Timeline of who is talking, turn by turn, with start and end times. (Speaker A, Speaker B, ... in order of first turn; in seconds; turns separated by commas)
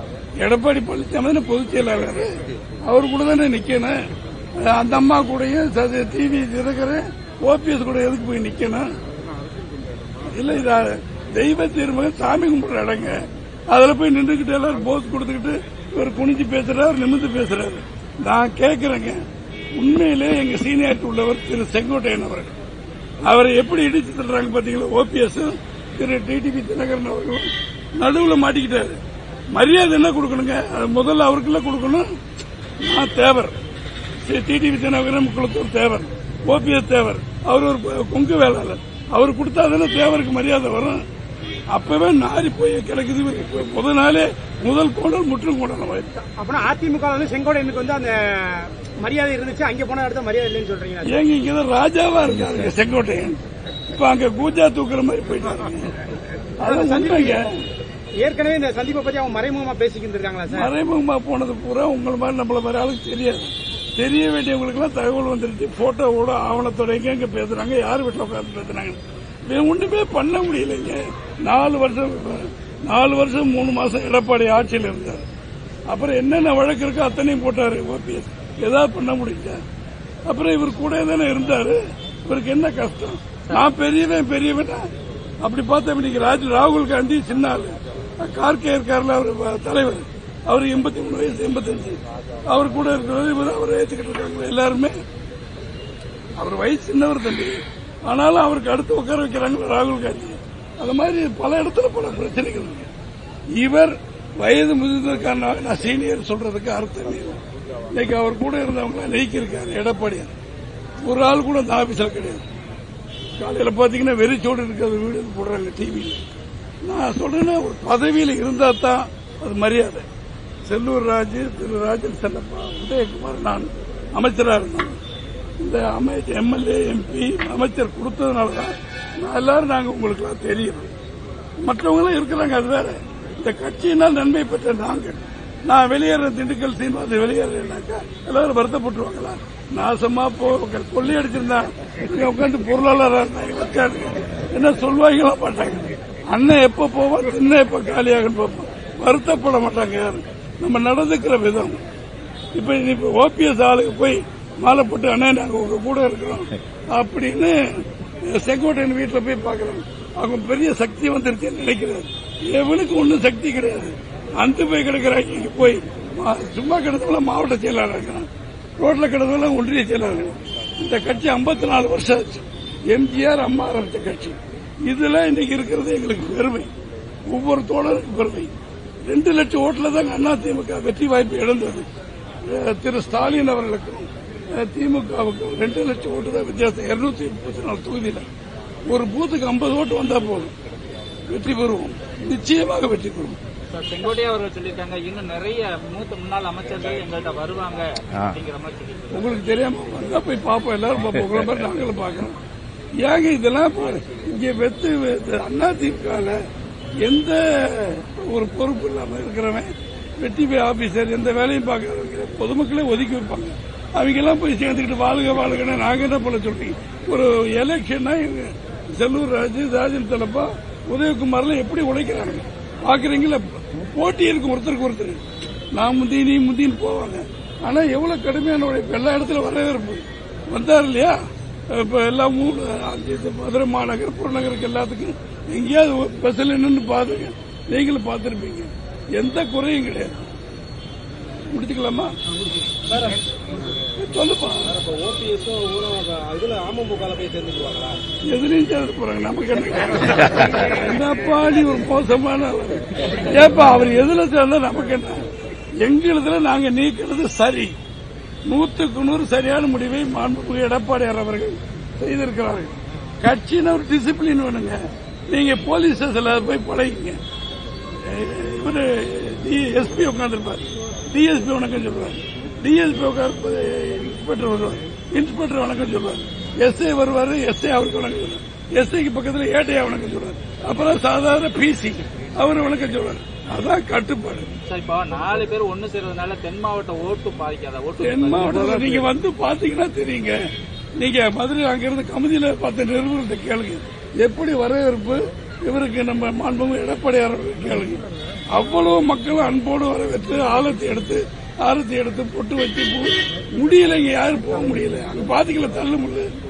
Speaker A: 0.4-2.3, Speaker A: 2.9-3.9, Speaker A: 4.6-8.9, Speaker A: 10.2-13.2, Speaker A: 13.7-19.2, Speaker A: 19.8-22.5, Speaker A: 23.2-29.0, Speaker A: 29.5-32.0, Speaker A: 32.8-33.5, Speaker A: 34.2-41.0, Speaker A: 41.7-46.2, Speaker B: 46.4-51.2, Speaker A: 51.0-53.4, Speaker A: 53.9-55.9, Speaker A: 56.6-57.6, Speaker B: 56.6-57.5, Speaker B: 58.2-60.7, Speaker A: 60.5-75.2, Speaker A: 75.9-79.6, Speaker A: 80.3-84.9, Speaker A: 85.4-95.0, Speaker A: 96.4-102.9, Speaker A: 103.5-107.4, Speaker A: 107.9-110.3, Speaker A: 111.0-112.4, Speaker A: 113.4-116.2, Speaker A: 116.8-120.0, Speaker A: 120.6-125.0, Speaker A: 125.6-130.9, Speaker A: 131.6-151.8, Speaker A: 152.5-168.3, Speaker A: 168.8-176.7, Speaker A: 177.3-178.5, Speaker A: 179.1-181.8, Speaker A: 182.5-188.2, Speaker A: 188.9-190.5, Speaker A: 191.3-193.4, Speaker C: 193.7-199.3, Speaker A: 199.1-202.3, Speaker A: 203.0-206.4, Speaker A: 207.0-225.2, Speaker A: 225.8-231.2, Speaker A: 231.7-240.2, Speaker A: 241.5-242.2, Speaker B: 242.9-243.2, Speaker A: 244.0-244.7, Speaker B: 244.6-248.0, Speaker A: 248.3-255.2, Speaker A: 255.8-257.8, Speaker A: 258.5-267.2, Speaker A: 268.0-284.5, Speaker C: 284.7-289.1, Speaker A: 288.0-290.4, Speaker A: 291.0-306.3